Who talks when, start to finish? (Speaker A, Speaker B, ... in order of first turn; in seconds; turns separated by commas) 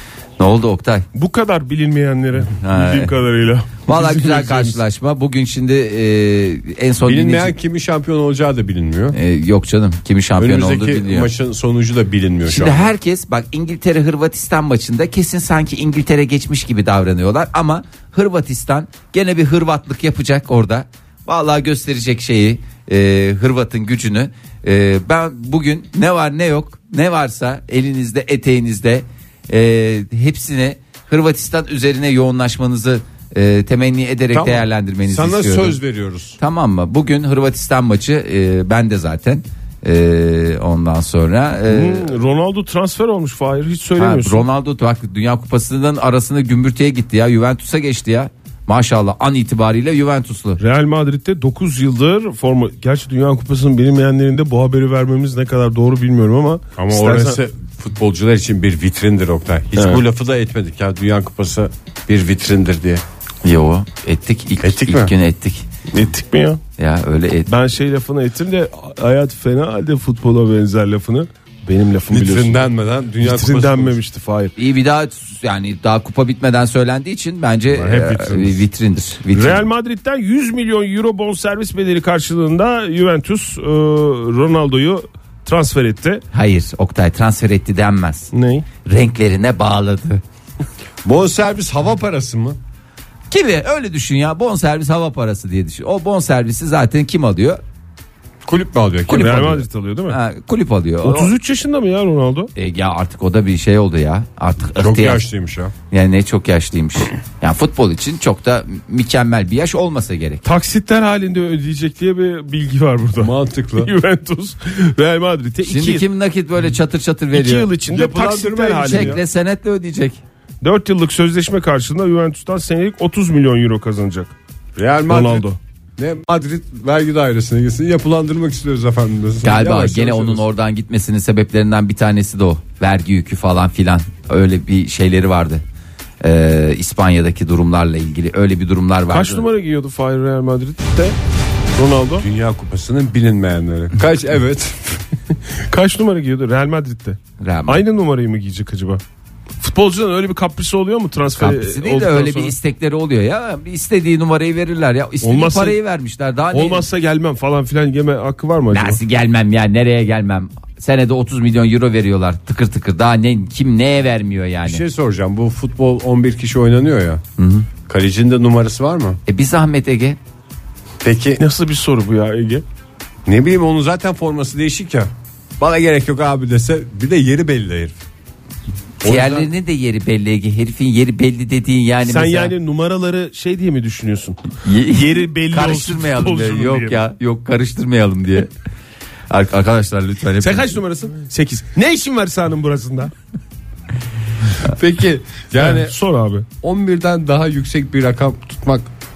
Speaker A: 0.4-1.1, Speaker B: 1.1-4.8, Speaker A: 2.6-3.1, Speaker A: 3.9-7.5, Speaker C: 7.0-9.2, Speaker A: 9.1-11.3, Speaker C: 10.4-12.9, Speaker A: 12.5-35.8, Speaker C: 34.3-36.4, Speaker A: 36.4-42.1, Speaker B: 41.7-44.5, Speaker A: 44.0-50.6, Speaker B: 50.6-57.4, Speaker C: 56.8-63.0, Speaker B: 59.8-60.0, Speaker A: 63.4-65.6, Speaker C: 64.6-65.1, Speaker B: 65.9-66.6, Speaker A: 66.8-67.5, Speaker B: 67.5-72.7, Speaker C: 72.1-74.0, Speaker B: 73.2-74.5, Speaker A: 74.6-79.7, Speaker C: 77.7-78.6, Speaker B: 79.3-86.2, Speaker A: 86.3-88.3, Speaker B: 88.3-88.6, Speaker A: 88.8-90.2, Speaker C: 91.0-92.6, Speaker A: 93.3-97.6, Speaker C: 98.4-99.6, Speaker B: 99.1-100.2, Speaker A: 99.1-99.6, Speaker A: 100.1-101.3, Speaker B: 101.0-102.5, Speaker A: 102.5-105.2, Speaker C: 104.8-105.7, Speaker A: 105.9-110.4, Speaker B: 110.4-116.0, Speaker C: 113.2-113.9, Speaker A: 115.6-117.7, Speaker B: 117.3-119.2, Speaker C: 117.9-119.2, Speaker A: 118.8-120.2, Speaker B: 120.6-124.3, Speaker C: 124.8-125.5, Speaker B: 125.1-125.6, Speaker C: 126.0-130.4, Speaker A: 129.4-135.6, Speaker A: 136.2-139.4, Speaker B: 139.1-141.2, Speaker B: 141.8-142.2, Speaker C: 142.2-145.0, Speaker B: 145.7-149.0, Speaker A: 147.4-147.8, Speaker B: 149.6-152.5, Speaker A: 151.4-156.8, Speaker B: 155.2-155.8, Speaker B: 156.5-159.0, Speaker A: 158.7-164.8, Speaker C: 164.6-167.2, Speaker A: 167.4-167.7, Speaker C: 167.9-169.2, Speaker A: 169.3-170.2, Speaker C: 171.0-171.4, Speaker B: 171.4-172.6, Speaker C: 173.2-178.0, Speaker C: 179.0-179.5, Speaker A: 179.0-182.5, Speaker B: 182.0-187.0, Speaker A: 184.6-188.5, Speaker A: 189.3-190.8, Speaker B: 190.4-193.1, Speaker C: 194.6-195.9, Speaker B: 195.6-196.4, Speaker C: 196.6-198.9